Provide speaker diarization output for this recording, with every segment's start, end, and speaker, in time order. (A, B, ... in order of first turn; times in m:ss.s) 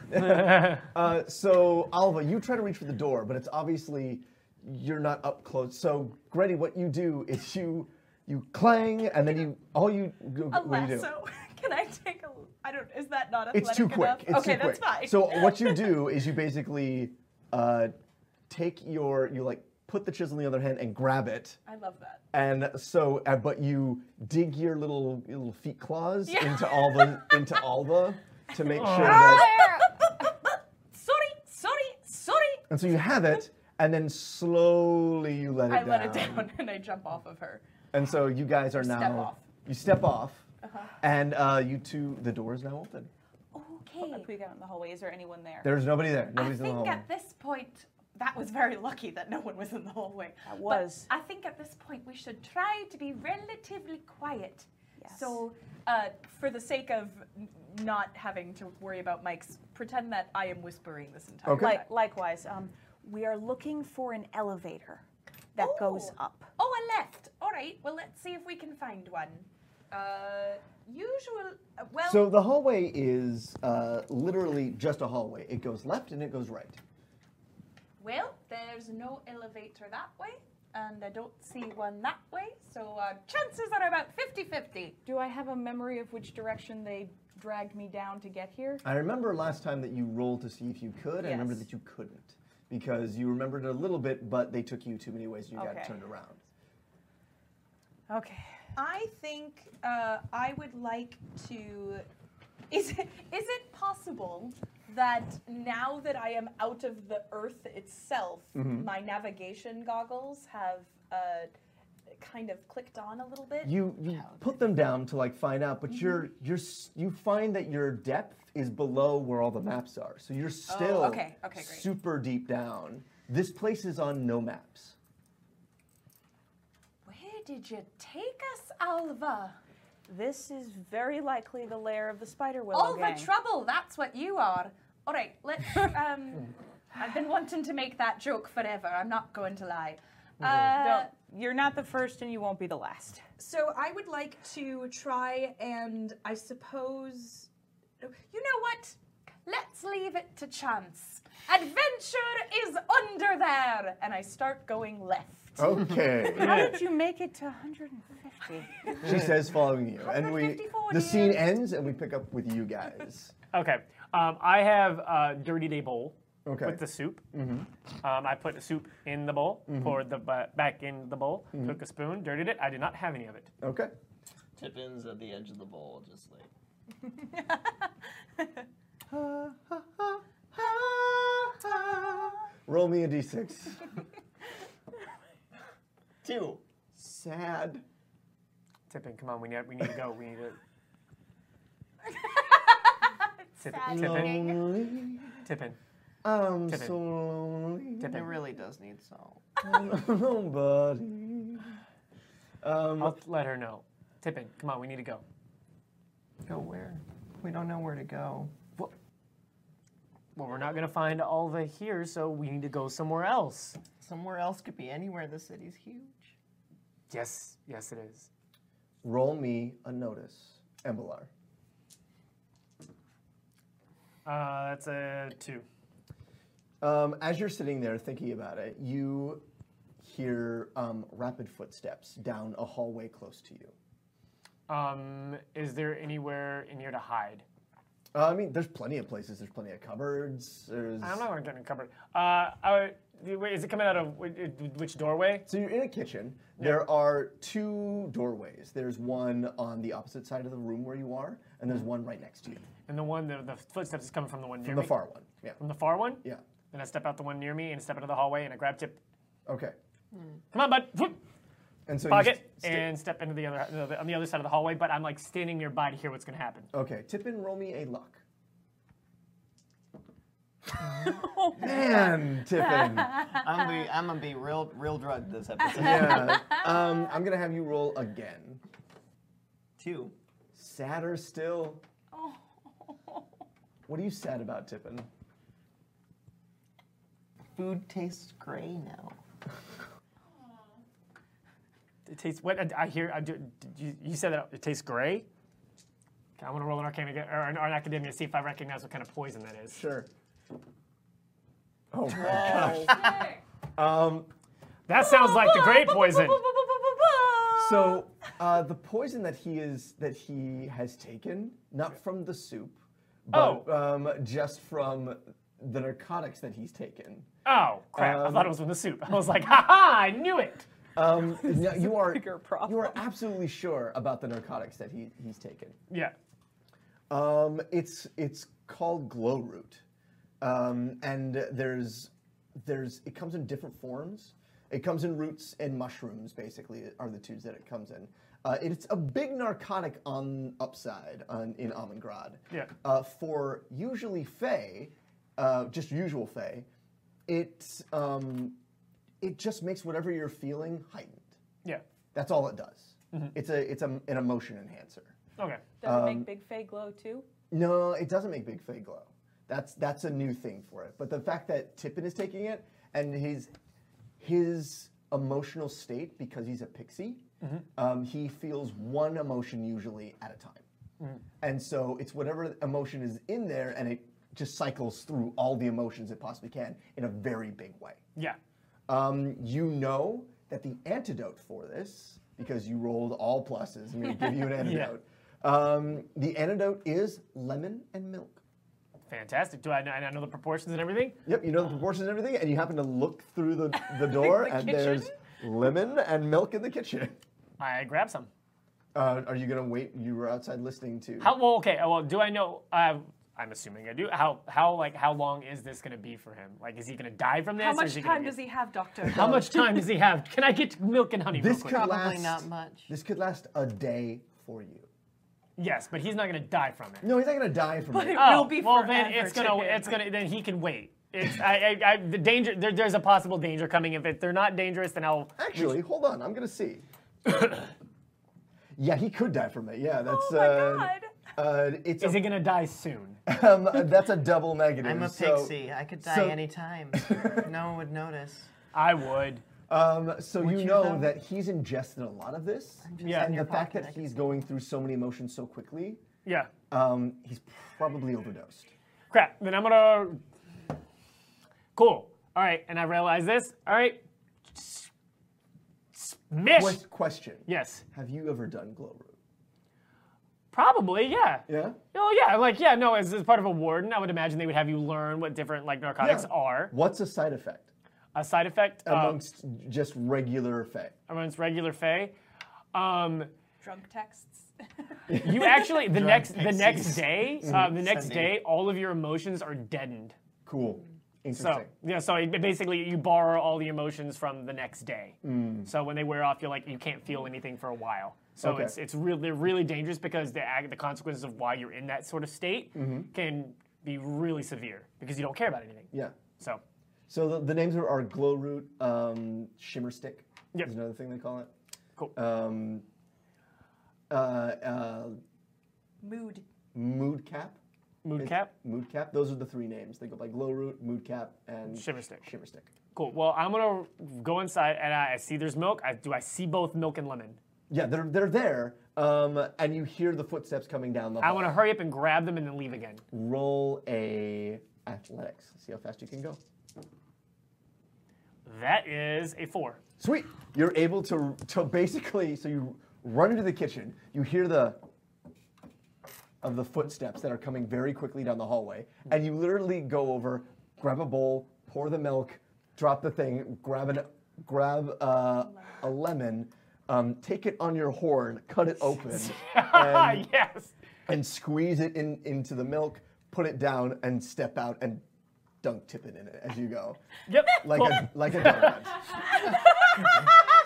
0:00.1-0:11.1 A
0:10.5-0:16.0 B
0:13.5-0:17.9 A
0:18.5-0:21.6 A
0:21.6-0:22.2 B
0:22.3-0:29.6 A
0:26.3-0:27.5 B
0:28.6-0:32.6 B
0:28.7-0:29.5 C
0:32.7-0:36.5 A
0:35.7-0:37.6 B
0:37.9-0:40.5 A
0:38.7-0:39.5 B
0:40.6-0:40.9 B
0:41.0-0:43.1 A
0:43.5-0:44.3 B
0:44.0-0:45.7 D
0:45.6-0:47.0 A
0:46.4-1:01.9 B
0:50.4-0:51.1 D
0:55.0-0:55.4 D
1:01.4-1:01.8 A
1:01.6-1:05.0 D
1:05.6-1:06.5 D
1:05.6-1:12.3 B
1:12.0-1:16.8 A
1:18.0-1:25.0 B
1:25.0-1:28.8 D
1:28.8-1:36.4 A
1:31.2-1:31.6 D
1:35.6-1:35.9 D
1:38.1-1:38.5 D
1:38.7-1:42.0 B
1:42.7-1:51.5 B
1:48.5-1:48.9 A
1:52.1-1:53.8 B
1:53.6-2:05.0 A
1:54.1-1:54.6 E
2:00.7-2:01.9 B
2:07.0-2:09.6 B
2:10.1-2:13.3 D
2:12.7-2:21.1 B
2:20.4-2:20.7 C
2:20.8-2:23.2 D
2:23.4-2:27.5 B
2:28.0-2:35.8 B
2:35.6-2:36.6 A
2:36.3-2:38.9 D
2:36.3-2:36.8 C
2:39.0-2:43.3 A
2:39.9-2:41.5 B
2:43.5-2:47.2 C
2:46.4-2:47.7 A
2:48.0-2:53.5 C
2:49.7-2:50.0 A
2:53.6-2:53.9 A
2:54.6-2:56.5 E
2:59.1-3:03.8 A
3:06.2-3:06.6 E
3:06.9-3:07.8 A
3:08.9-3:10.6 C
3:12.2-3:13.0 B
3:13.6-3:14.6 B
3:13.6-3:14.6 C
3:13.9-3:15.4 A
3:15.4-3:15.8 C
3:16.2-3:18.2 A
3:16.7-3:17.0 C
3:18.0-3:18.3 C
3:18.1-3:19.6 E
3:19.6-3:21.7 A
3:22.6-3:23.2 A
3:23.0-3:25.2 C
3:26.4-3:28.7 E
3:30.4-3:33.8 C
3:34.0-3:36.3 E
3:37.1-3:38.3 C
3:39.0-3:41.3 A
3:44.2-3:45.6 C
3:46.8-3:49.4 A
3:50.0-3:53.7 A
3:54.7-3:57.4 C
3:58.1-4:01.2 A
4:01.0-4:05.5 C
4:05.4-4:12.7 A
4:12.9-4:14.9 C
4:14.6-4:15.6 A
4:15.6-4:19.0 C
4:19.5-4:19.8 A
4:20.5-4:21.2 C
4:21.9-4:22.9 A
4:22.0-4:26.7 C
4:26.7-4:28.2 A
4:31.1-4:32.1 D
4:31.1-4:33.3 A
4:33.2-4:36.5 E
4:35.7-4:38.6 A
4:39.8-4:40.1 E
4:40.5-4:41.8 A
4:42.1-4:43.2 B
4:43.9-4:45.1 A
4:47.5-4:49.2 E
4:52.0-4:55.2 C
4:56.4-4:59.8 C
4:59.7-5:00.1 A
5:01.9-5:03.0 A
5:02.2-5:03.2 E
5:02.5-5:03.4 B
5:03.8-5:04.3 A
5:04.9-5:06.4 C
5:05.0-5:08.0 B
5:07.6-5:17.3 A
5:13.3-5:13.7 C
5:17.4-5:20.7 C
5:17.9-5:18.6 A
5:20.9-5:25.8 A
5:21.4-5:23.0 D
5:27.1-5:29.8 A
5:30.4-5:46.7 A
5:47.3-5:48.6 A
5:49.2-5:51.4 A
5:52.1-5:55.2 A
5:55.4-5:55.6 C
5:55.8-5:57.2 D
5:55.8-5:56.3 A
5:57.5-6:03.5 A
6:04.2-6:07.2 A
6:07.8-6:10.6 A
6:11.4-6:18.0 A
6:18.9-6:28.4 A
6:24.6-6:24.9 C
6:29.1-6:31.2 C
6:31.2-6:37.2 A
6:33.8-6:35.1 B
6:37.6-6:38.3 C
6:38.9-6:41.3 A
6:41.2-6:48.5 C
6:47.6-6:49.8 B
6:49.0-6:51.9 C
6:51.3-6:54.9 A
6:51.6-6:52.9 E
6:55.6-6:57.1 C
6:57.0-6:58.5 A
6:57.9-7:00.0 B
6:58.1-7:05.8 C
7:05.4-7:06.8 A
7:07.3-7:07.6 C
7:08.8-7:12.2 A
7:10.0-7:11.1 B
7:12.0-7:13.2 C
7:13.2-7:16.4 A
7:14.8-7:18.5 E
7:16.9-7:17.5 A
7:18.7-7:19.4 C
7:19.7-7:26.0 A
7:20.4-7:21.1 E
7:22.8-7:24.1 E
7:23.0-7:23.4 C
7:26.2-7:26.5 C
7:26.7-7:28.7 A
7:29.1-7:30.2 C
7:31.8-7:34.0 C
7:34.5-7:34.9 C
7:35.9-7:36.8 C
7:36.5-7:39.2 A
7:37.5-7:37.8 C
7:40.5-7:46.7 C
7:41.5-7:41.8 A
7:46.0-7:47.7 A
7:48.1-7:49.2 C
7:48.8-7:50.9 A
7:51.1-7:52.1 C
7:52.7-7:53.3 C
7:53.6-7:54.5 B
7:55.1-7:55.6 A
7:55.2-8:00.1 C
7:55.9-7:58.4 E
7:57.4-7:57.7 A
8:00.4-8:01.7 A
8:01.3-8:16.6 C
8:05.2-8:05.7 A
8:08.4-8:08.7 A
8:12.7-8:13.1 A
8:15.9-8:16.2 A
8:17.1-8:21.5 A
8:22.1-8:22.8 A
8:24.1-8:25.2 A
8:26.0-8:26.4 B
8:26.7-8:27.6 A
8:28.0-8:28.5 C
8:28.2-8:32.7 A
8:31.7-8:32.2 C
8:32.9-8:37.4 C
8:37.7-8:41.6 A
8:41.2-8:43.0 C
8:43.1-8:46.4 A
8:48.4-8:49.8 C
8:50.0-8:54.8 A
8:56.4-9:10.2 A
9:09.1-9:10.7 C
9:11.1-9:15.0 A
9:15.6-9:17.0 A
9:17.3-9:19.4 C
9:17.5-9:19.3 A
9:20.0-9:20.2 C